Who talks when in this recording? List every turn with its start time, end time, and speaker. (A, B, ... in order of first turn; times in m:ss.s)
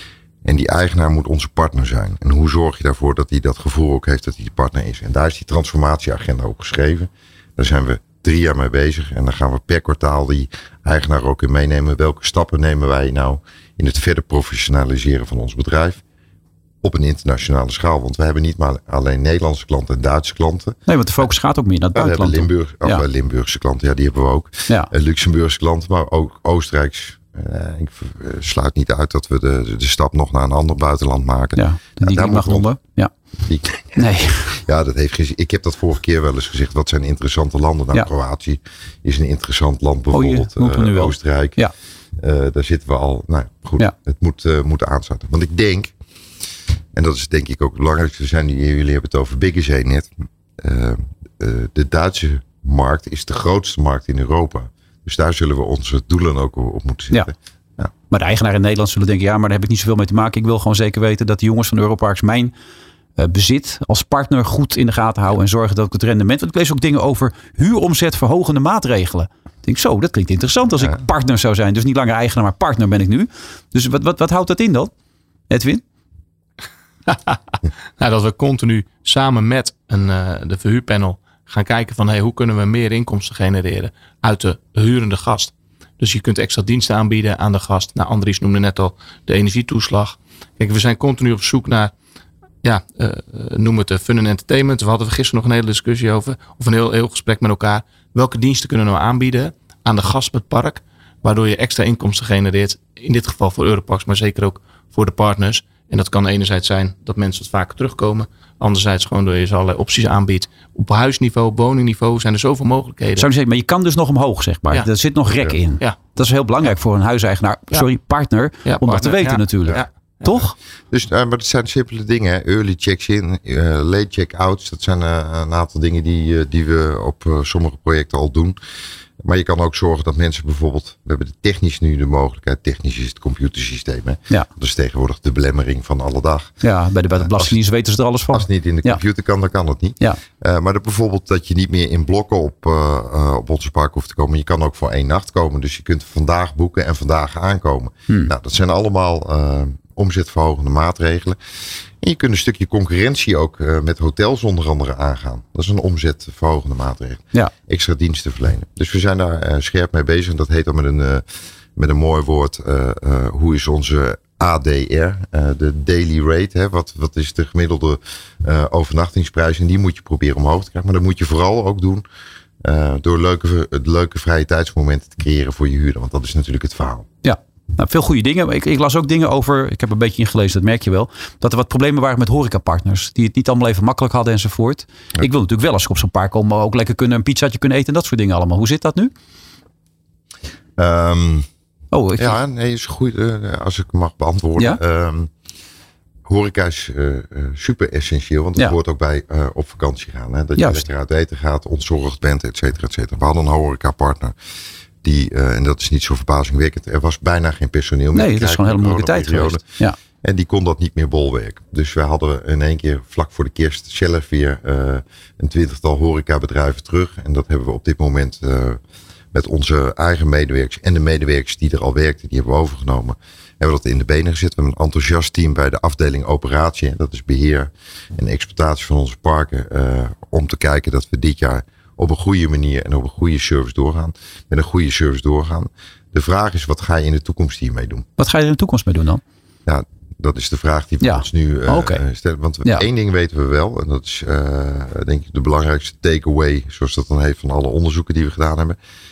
0:00.4-0:16.0 A
0:16.8-0:20.8 A
0:20.9-0:23.0 B
0:21.9-0:32.7 A
0:31.5-0:33.1 B
0:33.4-0:41.6 A
0:33.9-0:34.6 B
0:40.1-0:41.7 B
0:42.2-0:45.9 A
0:46.9-0:57.9 A
0:58.1-1:02.5 B
1:03.2-1:14.9 B
1:15.5-1:15.8 B
1:17.1-1:17.4 C
1:18.0-1:31.9 C
1:32.6-1:53.3 C
1:53.2-2:00.5 B
1:58.6-2:00.5 C
2:00.9-2:08.6 A
2:09.2-2:16.6 A
2:16.6-2:19.0 B
2:17.1-2:17.5 A
2:18.3-2:31.4 A
2:32.0-2:52.0 A
2:52.6-2:57.1 A
2:57.2-3:09.1 B
3:10.8-3:11.4 A
3:11.9-3:12.4 B
3:12.2-3:15.3 A
3:16.2-3:24.3 A
3:20.6-3:20.8 B
3:25.0-3:29.6 A
3:28.1-3:30.0 B
3:30.2-3:38.8 A
3:39.3-3:58.0 A
3:58.2-3:59.2 B
3:59.6-4:08.8 A
4:01.0-4:02.0 B